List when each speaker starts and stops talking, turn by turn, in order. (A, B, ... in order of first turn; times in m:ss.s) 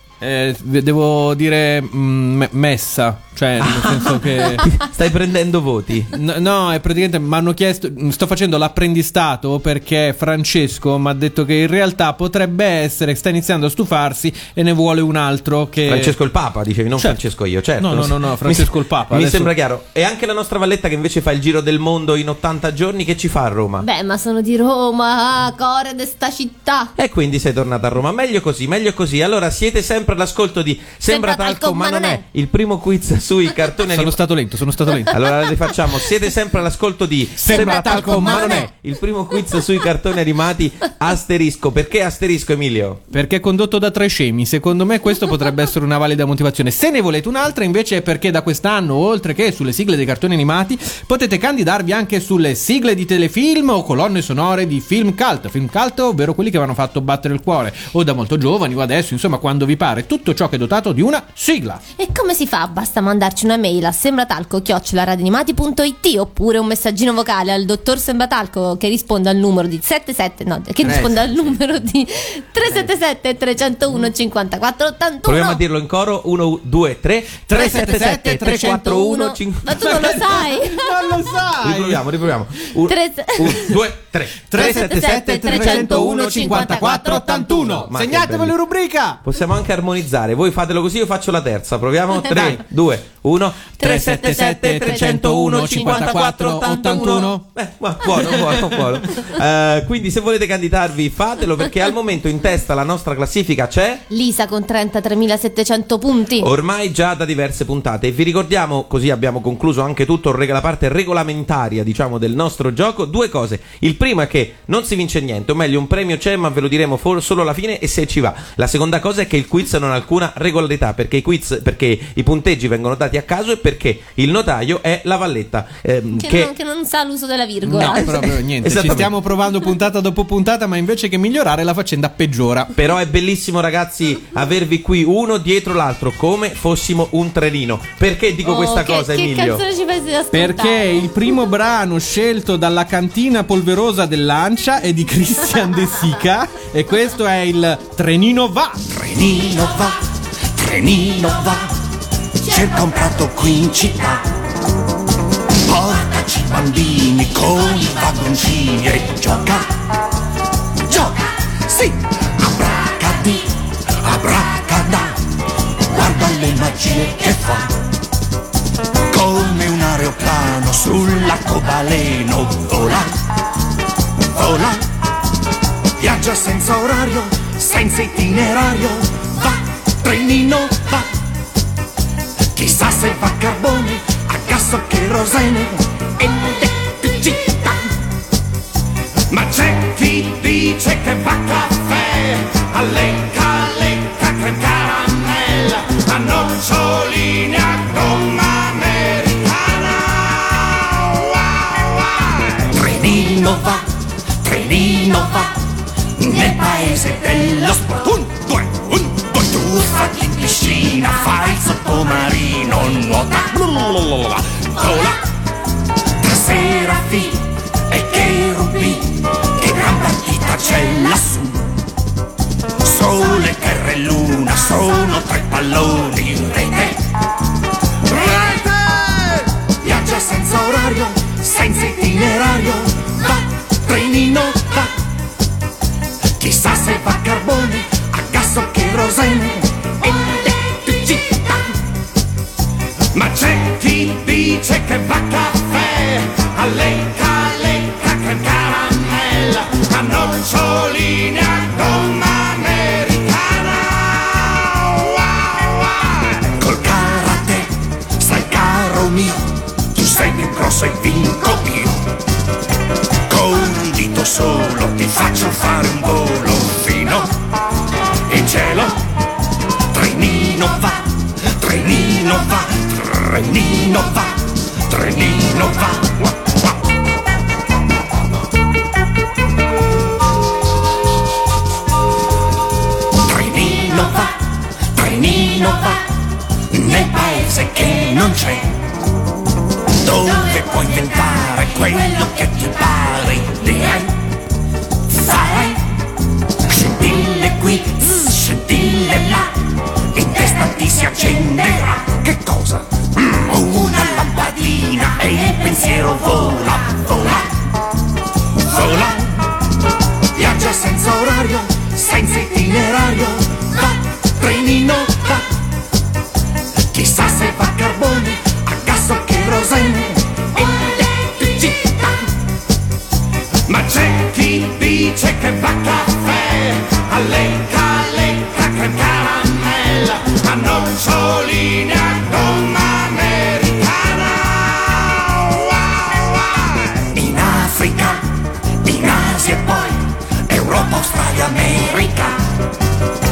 0:00.2-0:04.7 A
0:03.6-0:06.2 B
0:06.1-0:16.2 A
0:15.9-0:23.9 B
0:17.8-0:19.5 A
0:23.8-0:26.9 C
0:27.0-0:34.2 B
0:31.1-0:32.2 C
0:33.9-0:35.1 A
0:35.1-0:43.0 B
0:37.4-0:38.7 A
0:37.5-0:38.7 C
0:43.1-1:01.8 A
1:02.0-1:15.6 C
1:10.8-1:11.5 A
1:15.2-1:20.0 B
1:17.5-1:18.9 A
1:18.5-1:21.2 C
1:19.8-1:22.0 A
1:21.6-1:26.9 B
1:22.9-1:23.7 C
1:24.5-1:29.2 A
1:24.6-1:27.9 C
1:27.9-1:28.6 B
1:29.2-1:44.0 B
1:32.2-1:32.6 C
1:32.3-1:32.6 A
1:33.8-1:37.4 A
1:34.0-1:37.2 C
1:44.1-1:46.5 C
1:46.4-2:06.5 B
2:06.2-2:08.3 C
2:07.6-2:12.7 A
2:07.8-2:09.1 B
2:12.8-2:19.6 B
2:18.4-2:21.1 C
2:20.3-2:28.8 A
2:28.9-2:30.0 D
2:30.5-2:31.8 D
2:32.4-2:34.3 D
2:35.6-2:39.7 D
2:40.9-2:45.2 D
2:45.8-2:47.8 D
2:49.1-2:53.2 D
2:54.3-2:54.9 D
2:56.0-3:01.1 D
3:02.5-3:08.0 D
3:09.3-3:21.9 D
3:22.5-3:23.8 D
3:24.4-3:25.6 D
3:26.2-3:35.2 D
3:36.2-3:41.8 D
3:42.8-3:47.0 D
3:48.1-3:49.2 D
3:49.8-3:54.9 D
3:56.4-4:01.8 D
4:03.1-4:15.4 D
4:16.3-4:22.0 D
4:23.3-4:27.3 D
4:28.3-4:29.0 D
4:29.9-4:36.7 D
4:43.2-4:44.4 D
4:44.9-4:46.1 D
4:46.7-4:48.8 D
4:50.0-4:54.2 D
4:55.1-4:55.8 D
4:56.6-5:07.5 D
5:08.6-5:09.4 D
5:10.4-5:15.5 D
5:16.9-5:22.3 D
5:23.7-5:35.1 D
5:37.0-5:38.3 D
5:38.8-5:42.4 D